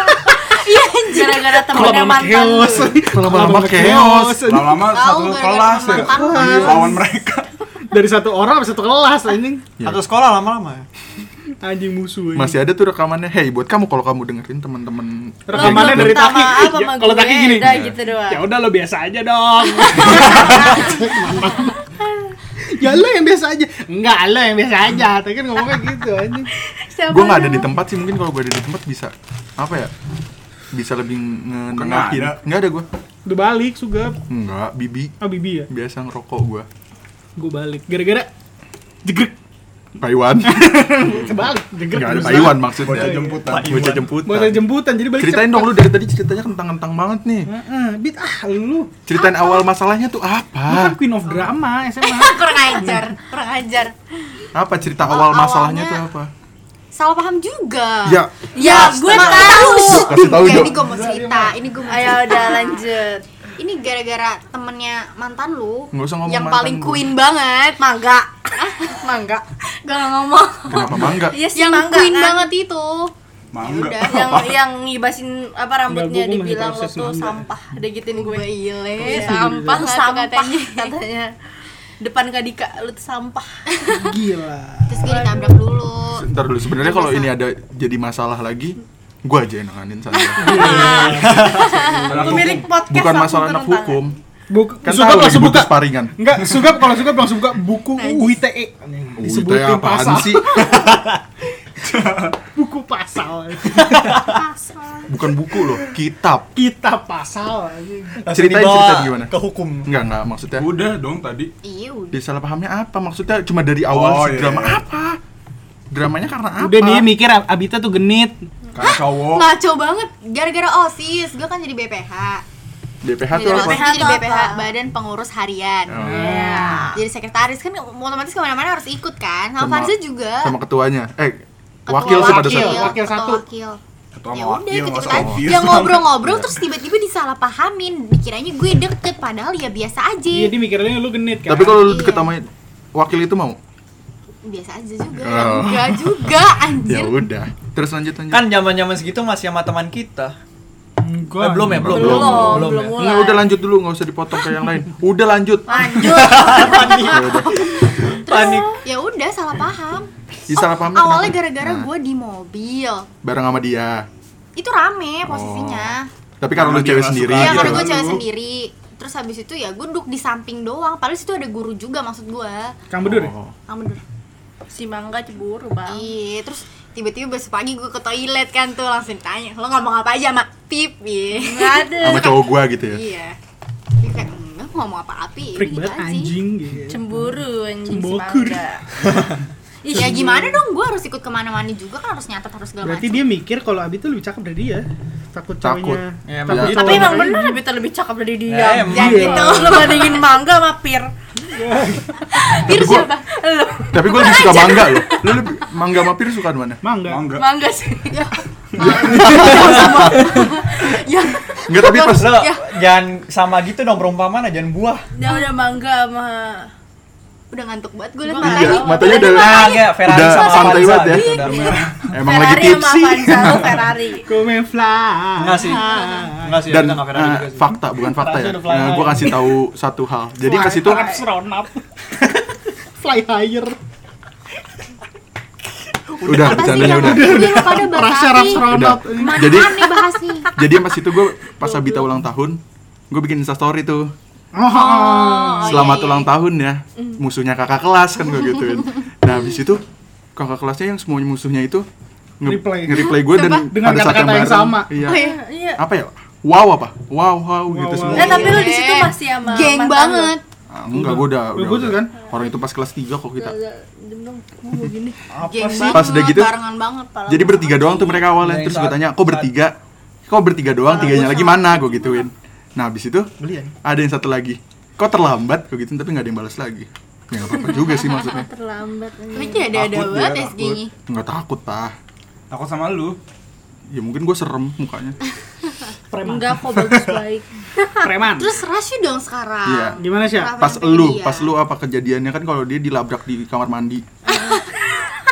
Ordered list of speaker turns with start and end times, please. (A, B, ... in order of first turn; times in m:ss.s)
0:00.3-0:01.9 A
0:00.4-0:03.0 B
0:01.6-0:05.0 C
0:03.1-0:04.4 D
0:04.4-0:07.5 E
0:04.8-0:06.9 A
0:05.9-0:07.0 C
0:07.9-0:09.7 C
0:09.8-0:10.8 F
0:11.6-0:12.6 C
0:12.3-0:16.2 D
0:15.5-0:17.8 C
0:15.5-0:18.5 B
0:17.6-0:18.0 D
0:18.3-0:21.8 C
0:19.7-0:21.0 B
0:21.9-0:22.3 B
0:22.8-0:26.5 C
0:26.6-0:27.7 B
0:27.1-0:29.9 D
0:30.7-0:32.8 D
0:31.7-0:32.4 E
0:33.2-0:34.2 C
0:34.3-0:35.2 D
0:35.2-0:35.7 C
0:35.7-0:36.7 D
0:37.4-0:38.3 C
0:39.0-0:39.3 C
0:40.0-0:40.8 D
0:40.4-0:43.4 C
0:41.9-0:47.5 D
0:42.7-0:44.0 E
0:43.3-0:44.1 F
0:44.2-0:45.9 C
0:47.5-0:48.9 C
0:49.0-0:51.0 D
0:49.2-0:49.6 A
0:50.6-0:52.4 C
0:51.3-0:53.9 A
0:54.5-0:56.3 D
0:55.0-0:56.0 A
0:56.9-1:02.8 A
0:58.0-0:58.3 D
0:58.5-1:00.2 B
0:59.7-1:00.8 D
1:00.4-1:01.5 C
1:01.9-1:03.2 B
1:03.6-1:07.8 A
1:05.9-1:07.1 D
1:07.8-1:12.5 B
1:08.6-1:09.0 A
1:09.8-1:14.4 A
1:10.7-1:11.4 D
1:13.5-1:14.6 E
1:14.0-1:21.3 B
1:15.9-1:17.4 C
1:18.1-1:20.9 A
1:19.0-1:19.8 C
1:22.0-1:24.0 B
1:24.0-1:25.2 C
1:24.9-1:26.2 A
1:25.0-1:25.6 B
1:26.2-1:30.8 D
1:26.8-1:27.2 A
1:30.4-1:31.4 C
1:30.4-1:32.0 A
1:30.5-1:34.0 B
1:30.8-1:31.7 F
1:32.0-1:32.7 E
1:32.2-1:34.2 D
1:34.5-1:41.0 C
1:34.8-1:36.1 D
1:38.0-1:38.4 A
1:39.2-1:40.7 D
1:40.7-1:41.0 F
1:41.8-1:42.3 E
1:42.5-1:44.4 C
1:44.3-1:45.0 B
1:44.4-1:45.1 A
1:45.1-1:46.5 D
1:46.5-1:48.2 C
1:48.2-1:49.9 F
1:48.3-1:49.3 D
1:49.8-1:50.7 D
1:50.6-1:51.5 E
1:51.6-1:52.2 A
1:52.1-1:55.2 D
1:53.9-1:54.8 E
1:55.9-1:57.1 D
1:56.6-1:58.4 C
1:58.7-1:59.5 E
1:58.8-2:02.4 A
2:03.0-2:03.8 D
2:03.3-2:10.5 A
2:03.4-2:04.7 B
2:05.9-2:06.4 D
2:05.9-2:06.9 C
2:06.1-2:07.0 B
2:09.6-2:12.9 D
2:11.9-2:13.8 A
2:12.0-2:13.4 C
2:14.1-2:16.3 E
2:14.3-2:20.6 A
2:15.1-2:15.4 D
2:20.3-2:21.9 C
2:21.5-2:23.6 D
2:21.8-2:22.3 A
2:24.4-2:27.2 A
2:25.2-2:26.2 D
2:26.8-2:28.5 D
2:28.3-2:30.3 F
2:31.0-2:31.8 C
2:31.4-2:33.0 F
2:31.6-2:35.9 D
2:31.8-2:33.6 B
2:35.7-2:38.8 B
2:35.8-2:37.1 A
2:35.9-2:38.7 F
2:37.0-2:37.6 D
2:38.3-2:43.1 A
2:40.5-2:41.9 D
2:43.2-2:44.0 D
2:44.6-2:46.1 A
2:45.2-2:47.9 D
2:46.5-2:48.2 E
2:47.3-2:52.7 A
2:52.9-2:53.3 C
2:53.0-2:53.5 D
2:53.7-2:54.0 A
2:54.7-2:56.1 B
2:55.8-3:03.4 A
3:01.3-3:02.4 B
3:02.0-3:03.0 D
3:04.0-3:06.3 A
3:05.5-3:08.6 C
3:06.9-3:08.8 B
3:09.0-3:09.3 F
3:09.8-3:10.5 B
3:09.9-3:13.3 A
3:09.9-3:10.4 C
3:12.8-3:17.6 C
3:15.6-3:17.0 D
3:16.2-3:17.4 F
3:16.7-3:21.1 B
3:18.4-3:19.4 F
3:18.9-3:20.3 A
3:19.0-3:19.5 C
3:21.6-3:22.1 C
3:22.2-3:25.5 B
3:22.6-3:23.2 A
3:22.7-3:23.1 D
3:23.9-3:26.8 D
3:26.8-3:27.3 C
3:27.0-3:27.5 E
3:27.3-3:32.6 B
3:28.1-3:30.9 A
3:28.8-3:29.9 D
3:29.3-3:30.0 F
3:31.7-3:32.4 D
3:32.0-3:35.0 F
3:35.2-3:36.7 B
3:37.5-3:40.7 A
3:38.2-3:39.8 B
3:38.4-3:41.4 D
3:39.2-3:41.8 F
3:41.3-3:44.3 B
3:41.6-3:42.0 E
3:42.1-3:43.7 D
3:44.2-3:46.6 C
3:45.4-3:47.8 F
3:45.8-3:46.3 A
3:46.7-3:51.0 D
3:48.2-3:49.5 C
3:50.4-3:52.2 C
3:50.9-3:51.2 B
3:53.0-3:53.8 C
3:56.2-3:57.0 F
3:56.2-3:57.4 D
3:56.3-4:00.5 A
3:56.8-3:59.8 C
3:58.6-3:59.8 D
4:00.6-4:04.1 D
4:04.5-4:05.8 C
4:04.7-4:06.3 A
4:05.6-4:09.8 D
4:10.4-4:11.9 D
4:12.4-4:15.2 D
4:12.4-4:14.9 C
4:13.0-4:13.7 A
4:15.0-4:15.4 A
4:15.0-4:15.8 B
4:15.8-4:18.5 D
4:17.7-4:18.6 C
4:18.1-4:20.3 B
4:18.1-4:20.4 A
4:20.7-4:23.6 D
4:20.9-4:22.1 C
4:23.4-4:25.2 B
4:25.3-4:26.0 F
4:25.4-4:28.3 A
4:25.9-4:26.6 D
4:27.3-4:29.7 D
4:28.3-4:29.5 F
4:30.3-4:33.3 D
4:30.9-4:31.5 A
4:30.9-4:32.2 B
4:33.4-4:33.7 F
4:33.8-4:38.5 D
4:37.6-4:39.7 B
4:39.3-4:40.9 A
4:39.7-4:40.8 E
4:41.1-4:41.9 D
4:42.5-4:43.2 E
4:43.9-4:45.2 D
4:46.1-4:46.8 C
4:46.2-4:47.4 B
4:48.0-4:48.5 C
4:48.0-4:51.5 A
4:49.6-4:50.0 D
4:50.0-4:50.6 C
4:50.6-4:54.0 D
4:54.3-4:54.6 A
4:54.3-4:54.6 B